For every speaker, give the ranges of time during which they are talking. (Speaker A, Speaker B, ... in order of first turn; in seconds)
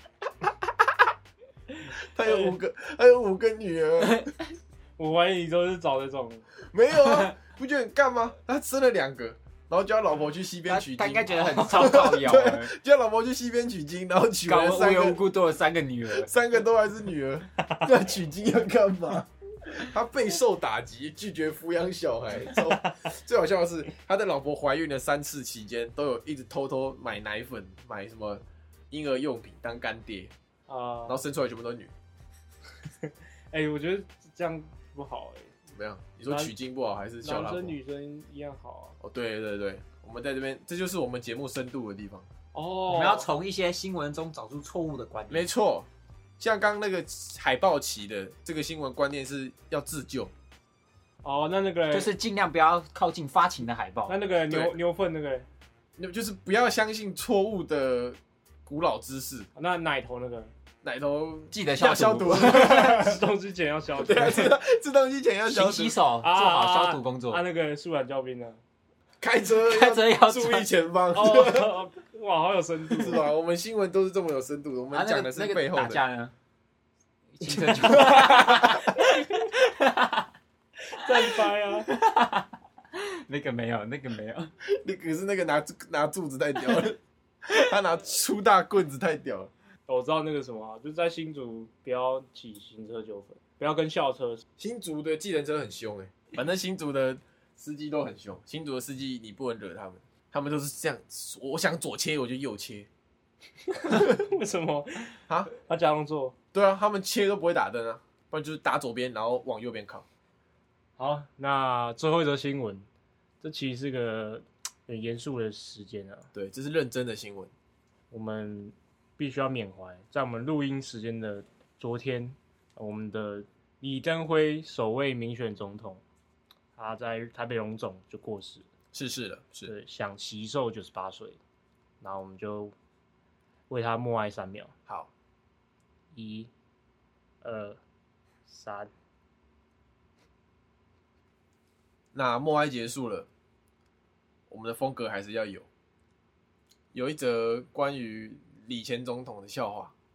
Speaker A: 1.9-4.3, 6.7-15.2, 16.1-30.3, 31.1-31.9, 35.8-37.8, 39.0-42.3, 45.3-45.9, 46.4-50.3, 54.5-54.8, 56.0-59.5, 60.8-63.2, 64.0-66.0, 69.2-71.8, 72.9-76.0, 78.1-78.5, 84.7-89.5, 94.6-102.9, 106.5-110.0, 116.3-117.5, 128.9-129.7, 142.1-143.3, 144.5-145.7, 146.9-149.9
Speaker B: 2.2-2.5, 5.0-6.4, 30.7-31.2, 33.5-35.5, 36.3-36.5, 37.2-39.0, 42.5-43.3, 51.2-52.1, 54.1-55.5, 59.5-60.5, 62.4-64.6, 66.2-68.6, 71.1-73.3, 77.8-79.3, 80.9-81.9, 89.9-94.5, 103.7-106.3, 111.0-112.9, 113.4-116.3, 118.1-126.0, 126.8-128.7, 129.7-131.4, 132.0-132.7, 133.7-134.7, 136.1-136.5, 137.4-137.8, 138.5-138.9
Speaker C: 4.0-4.3, 10.7-12.7, 14.5-16.3, 42.9-45.5, 51.9-54.2, 61.5-62.8, 65.5-67.4, 69.6-70.7, 74.9-76.3, 77.3-80.2, 81.7-84.5